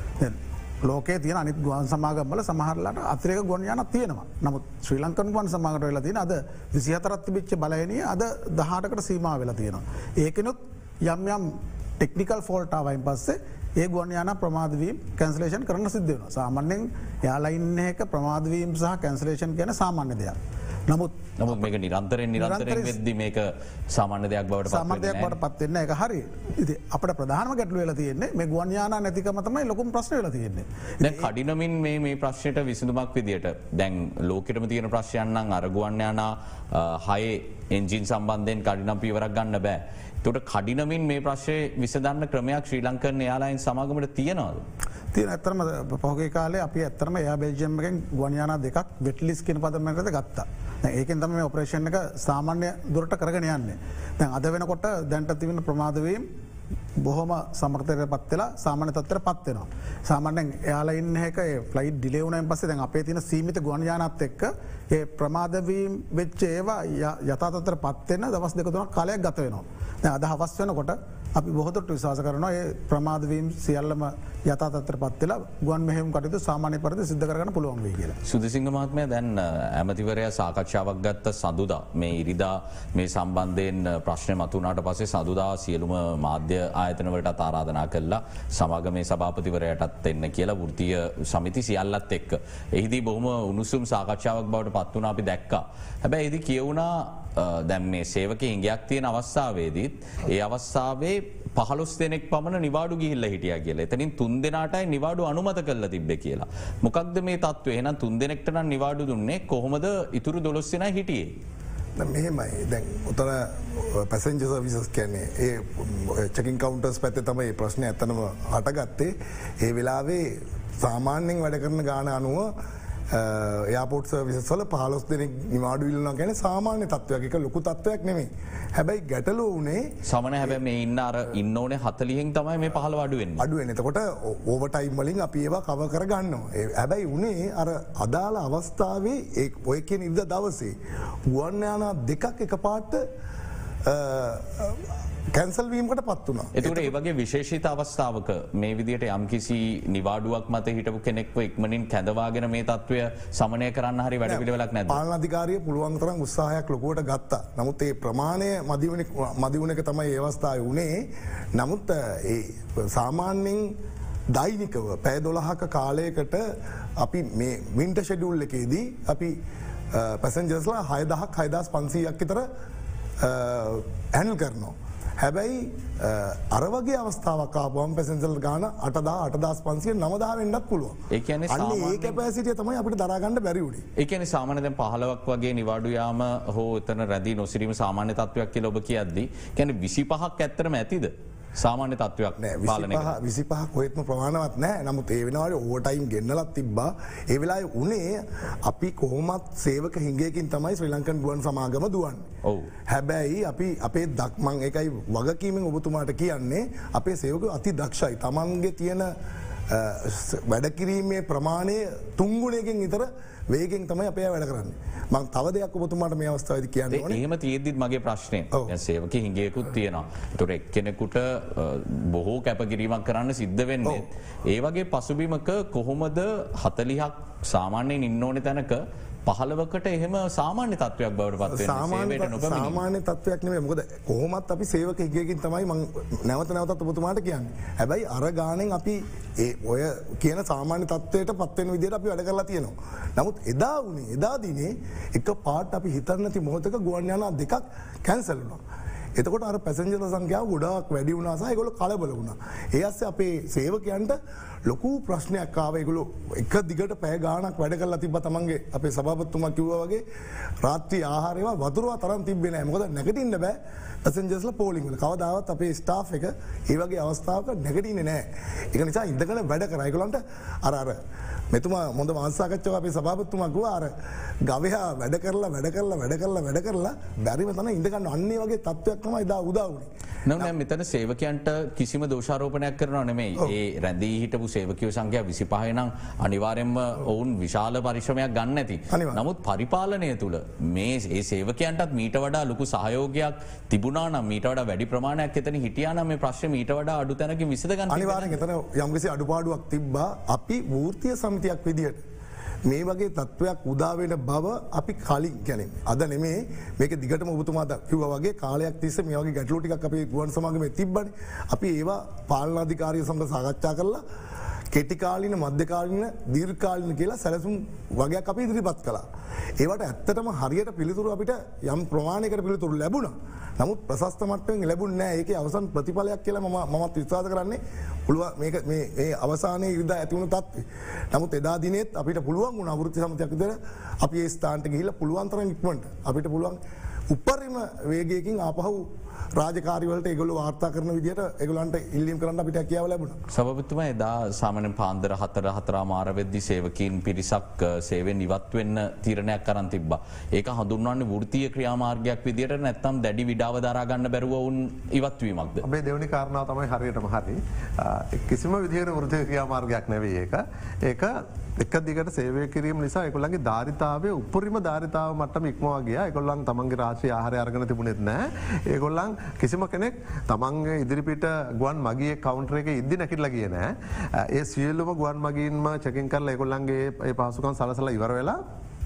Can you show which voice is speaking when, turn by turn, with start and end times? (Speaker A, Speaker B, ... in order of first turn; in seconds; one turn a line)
Speaker A: 0.2-20.4
Speaker A: 20.9-21.3
Speaker B: 21.4-25.4
Speaker A: 22.4-23.0
Speaker A: 24.7-31.3
Speaker B: 31.0-44.6
Speaker A: 45.1-56.2
Speaker A: 57.0-78.2
Speaker B: 78.2-111.3
Speaker C: 112.0-122.5
Speaker C: 123.1-129.9
Speaker B: 130.1-133.4
Speaker C: 133.4-140.7
Speaker C: 141.3-143.0
Speaker C: 143.8-146.9
Speaker B: 146.6-155.0
Speaker C: 154.2-161.0
Speaker C: 161.6-163.7
Speaker C: 164.3-166.4
Speaker C: 167.0-169.3
Speaker C: 169.9-172.4
Speaker C: 173.2-181.0
Speaker B: 181.1-182.2
Speaker C: 181.5-183.8
Speaker B: 184.0-193.1
Speaker C: 192.4-202.3
Speaker B: 202.4-202.7
Speaker C: 202.9-209.1
Speaker C: 209.7-217.2
Speaker B: 216.9-232.8
Speaker C: 231.5-248.6
Speaker C: 249.2-260.0
Speaker C: 260.6-271.0
Speaker C: 271.5-273.9
Speaker C: 274.5-280.5
Speaker B: 280.2-298.4
Speaker C: 288.9-289.2
Speaker C: 297.9-302.0
Speaker C: 302.6-314.0
Speaker C: 314.7-319.0
Speaker C: 319.6-336.6
Speaker C: 337.1-343.2
Speaker B: 343.3-355.6
Speaker D: 355.6-378.4